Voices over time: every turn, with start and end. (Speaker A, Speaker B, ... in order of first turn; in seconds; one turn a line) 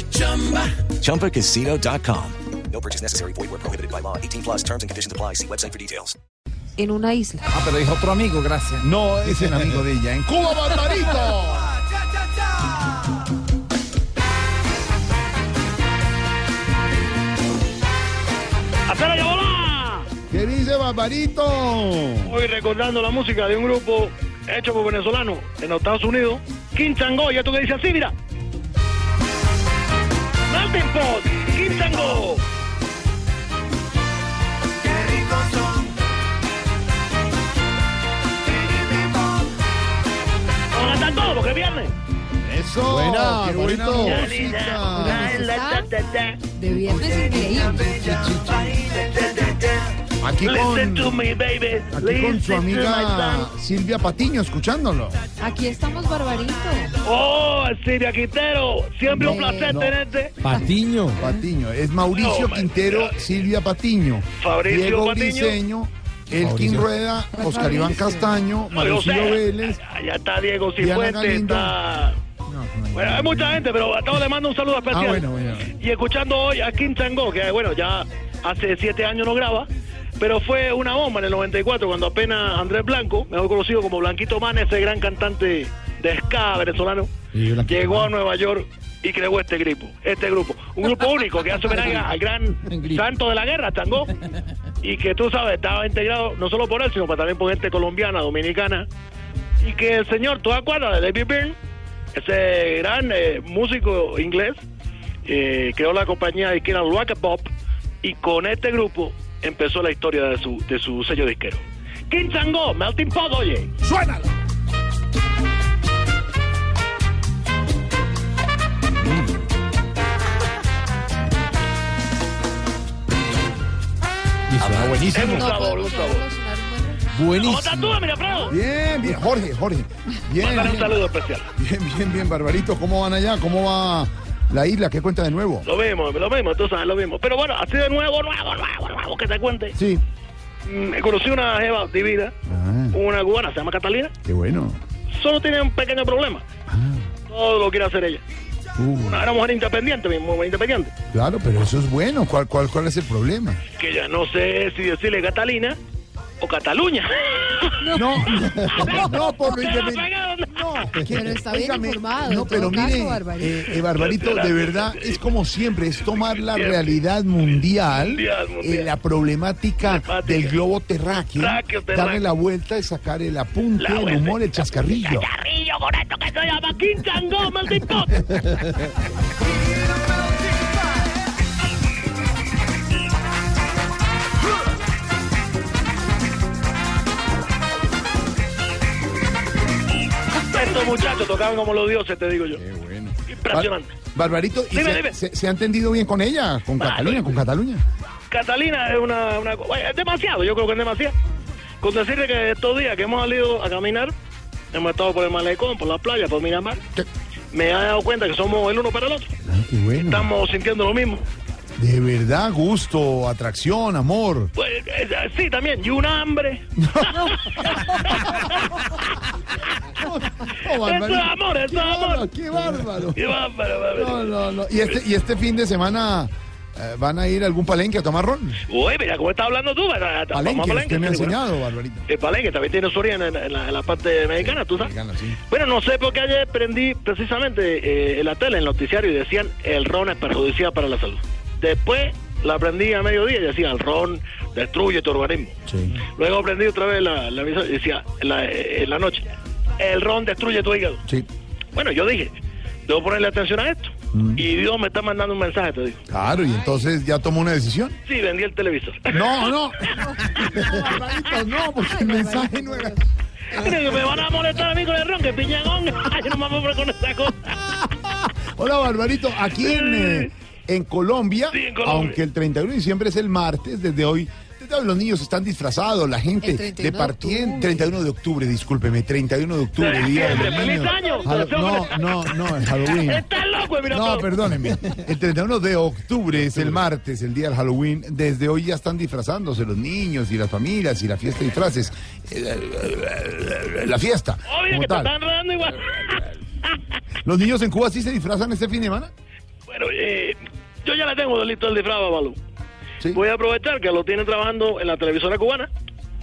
Speaker A: 0.2-0.9
Speaker B: 0.9-6.1
Speaker C: 6.8-7.5
Speaker A: 7.5-8.8
Speaker D: 8.8-11.7
Speaker E: 18.9-20.1
Speaker D: 20.3-22.3
Speaker E: 22.2-28.1
Speaker E: 30.5-32.4
Speaker E: 40.7-41.9
Speaker D: 42.5-45.5
Speaker A: 42.5-44.3
Speaker E: 43.9-46.4
Speaker C: 44.9-45.9
Speaker C: 46.5-48.1
Speaker A: 47.9-48.8
Speaker E: 48.7-53.5
Speaker D: 50.2-51.2
Speaker D: 51.9-55.2
Speaker C: 55.4-56.9
Speaker E: 57.0-60.4
Speaker C: 59.1-59.8
Speaker D: 59.2-60.0
Speaker A: 60.4-61.3
Speaker C: 60.4-60.9
Speaker D: 61.1-69.8
Speaker E: 62.1-63.2
Speaker E: 64.4-65.6
Speaker A: 66.3-66.9
Speaker C: 67.3-68.3
Speaker E: 68.7-72.2
Speaker D: 70.8-71.8
Speaker A: 72.5-73.5
Speaker E: 72.9-94.1
Speaker D: 74.9-75.6
Speaker A: 87.3-88.1
Speaker E: 94.8-98.9
Speaker E: 99.6-101.5
Speaker E: 102.1-104.6
Speaker E: 105.2-107.5
Speaker E: 108.0-113.7
Speaker D: 113.8-114.2
Speaker A: 124.5-125.5
Speaker E: 124.9-126.2
Speaker C: 125.1-127.2
Speaker A: 127.1-128.0
Speaker E: 127.2-128.6
Speaker D: 128.5-130.9
Speaker E: 130.4-131.4
Speaker D: 131.6-135.7
Speaker E: 135.6-139.8
Speaker D: 139.8-140.0
Speaker E: 140.6-142.3
Speaker D: 142.5-143.0
Speaker E: 142.9-144.1
Speaker D: 144.2-144.8
Speaker E: 145.1-146.4
Speaker D: 146.7-147.1
Speaker E: 147.3-148.2
Speaker D: 148.8-149.2
Speaker E: 149.0-150.9
Speaker D: 151.1-153.6
Speaker E: 153.8-155.8
Speaker E: 156.4-160.7
Speaker C: 157.8-159.0
Speaker D: 157.9-175.3
Speaker C: 161.1-163.7
Speaker E: 163.7-165.3
Speaker E: 166.0-168.9
Speaker E: 169.9-170.6
Speaker E: 171.3-172.2
Speaker E: 173.8-178.6
Speaker E: 190.3-192.6
Speaker D: 192.5-197.8
Speaker E: 193.3-193.9
Speaker E: 194.7-195.2
Speaker E: 196.8-197.4
Speaker E: 198.3-201.1
Speaker E: 201.8-204.1
Speaker E: 204.7-206.8
Speaker E: 207.5-209.3
Speaker D: 209.4-210.3
Speaker E: 209.9-211.2
Speaker D: 211.8-214.5
Speaker E: 214.6-219.0
Speaker D: 216.8-218.7
Speaker D: 219.9-228.6
Speaker E: 220.8-222.2
Speaker E: 223.1-224.3
Speaker E: 228.7-231.4
Speaker D: 230.3-232.1
Speaker E: 232.1-234.9
Speaker D: 234.4-235.4
Speaker E: 235.5-245.6
Speaker D: 245.7-245.9
Speaker E: 246.1-249.3
Speaker E: 249.8-251.0
Speaker E: 251.7-252.3
Speaker E: 252.9-256.0
Speaker D: 254.1-254.4
Speaker D: 256.1-257.9
Speaker E: 258.0-260.2
Speaker D: 259.1-263.0
Speaker C: 260.3-263.0
Speaker E: 263.5-267.8
Speaker D: 267.9-283.3
Speaker E: 269.6-270.3
Speaker E: 271.5-272.2
Speaker C: 276.4-277.9
Speaker E: 279.8-284.5
Speaker D: 283.9-295.1
Speaker E: 294.5-296.7
Speaker D: 297.2-299.1
Speaker E: 299.7-302.4
Speaker E: 303.1-305.7